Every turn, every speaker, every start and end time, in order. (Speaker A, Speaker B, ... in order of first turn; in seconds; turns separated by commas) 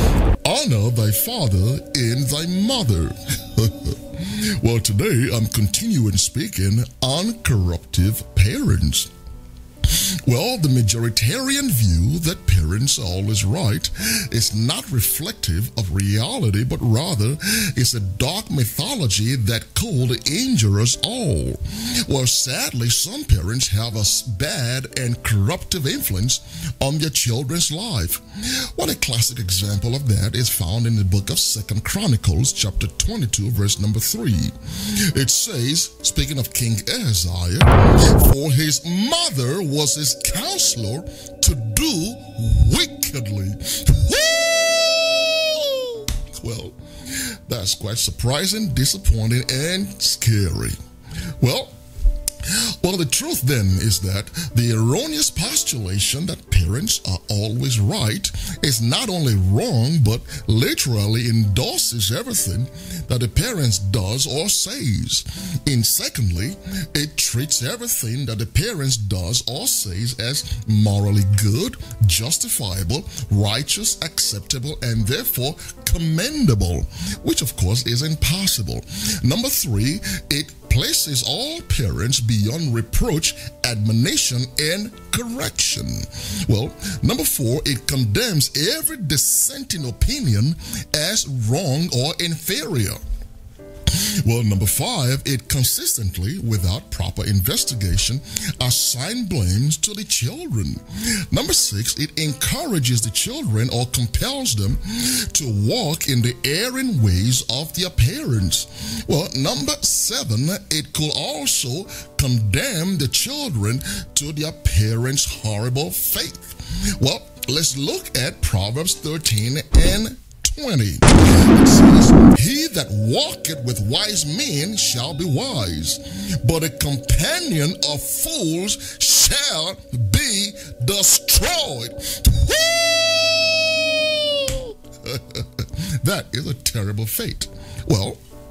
Speaker A: 0.4-9.1, Speaker A: 9.8-50.8, Speaker A: 51.4-51.7, Speaker A: 52.4-93.0, Speaker A: 93.9-138.2